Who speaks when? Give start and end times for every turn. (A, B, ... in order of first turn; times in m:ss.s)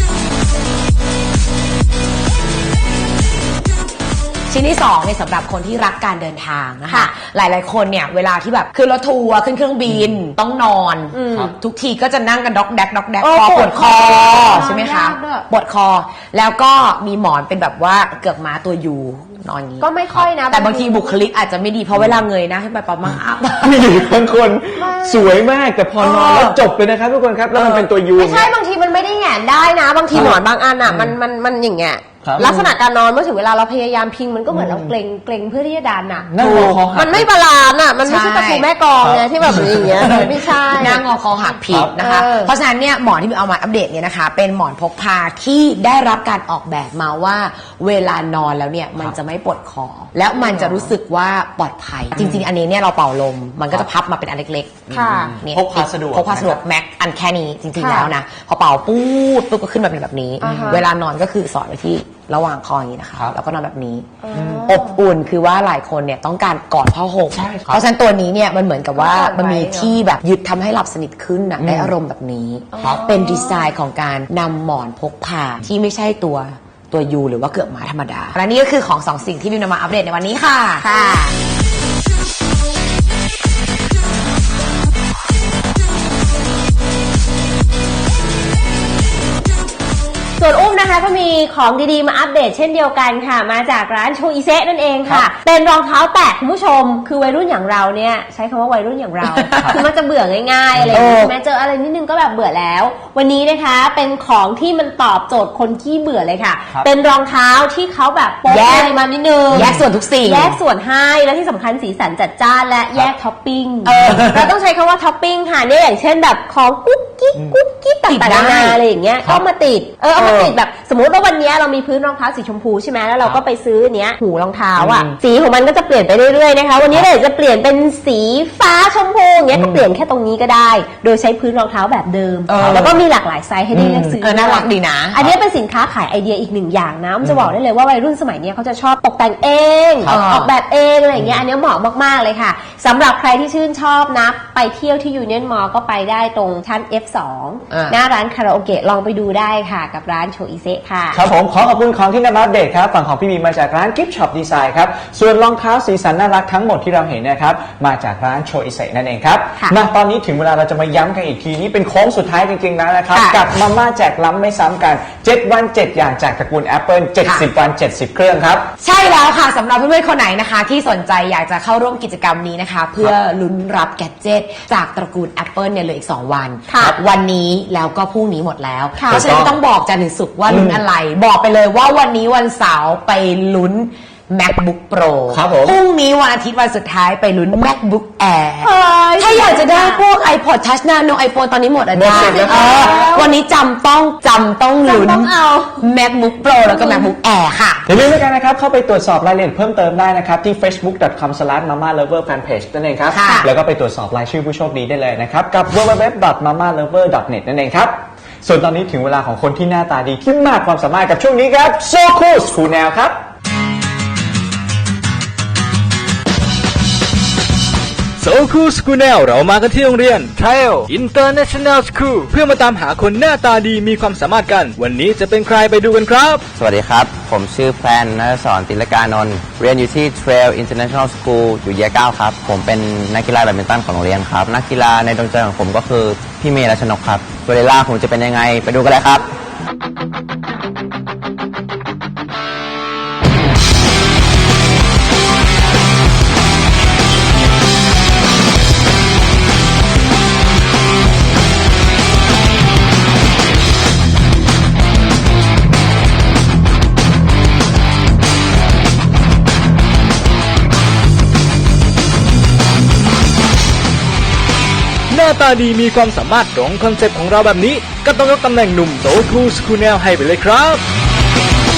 0:04.5-0:19.9 A
0:11.1-0:11.5 B
0:13.2-0:15.5 B
0:19.8-0:21.1 B
0:20.5-0:24.0 A
0:23.6-0:28.5 C
0:24.7-0:25.3 B
0:26.0-0:26.6 B
0:27.5-0:41.0 B
0:30.1-0:31.1 C
0:32.2-0:32.7 C
0:34.5-0:34.9 C
0:36.3-0:37.3 C
0:36.4-0:36.8 A
0:38.0-0:38.7 A
0:39.0-0:40.9 C
0:40.7-1:04.1 A
0:41.7-0:41.9 C
0:42.0-0:42.5 B
0:50.4-0:50.8 B
0:52.2-0:52.4 C
0:54.9-0:56.6 C
0:54.9-0:55.3 B
0:57.8-0:58.1 B
1:00.4-1:00.8 B
1:00.4-1:00.8 C
1:04.2-1:04.8 B
1:04.3-1:04.8 C
1:04.6-1:20.9 A
1:07.3-1:07.8 C
1:09.0-1:09.9 B
1:11.6-1:11.9 C
1:12.7-1:13.7 B
1:12.8-1:13.1 C
1:20.8-1:21.3 B
1:30.4-2:31.2 B
1:39.4-1:39.7 A
1:39.6-1:39.8 C
1:40.7-1:41.1 C
1:40.9-1:41.3 A
1:48.5-1:48.9 A
1:49.5-1:50.6 A
1:49.5-1:49.8 C
1:53.8-1:54.5 C
1:53.9-1:54.2 A
1:58.1-1:58.8 A
2:00.2-2:00.5 C
2:04.8-2:05.2 C
2:09.5-2:09.8 C
2:12.5-2:12.9 A
2:12.6-2:13.0 C
2:13.7-2:14.2 C
2:14.2-2:15.3 A
2:17.2-2:17.5 C
2:20.0-2:20.5 A
2:27.7-2:28.0 A
2:31.1-2:48.7 C
2:43.1-2:43.4 A
2:48.8-3:17.8 A
2:56.7-2:57.0 B
2:59.0-2:59.3 B
2:59.1-2:59.6 C
3:00.5-3:00.8 C
3:05.3-3:05.8 C
3:08.6-3:10.0 B
3:11.9-3:12.8 C
3:12.1-3:13.3 B
3:14.8-3:15.8 B
3:16.6-3:17.1 B
3:17.8-3:33.2 C
3:23.1-3:23.5 A
3:38.2-3:46.4 D
3:46.5-3:59.3 E
4:25.1-4:30.8 D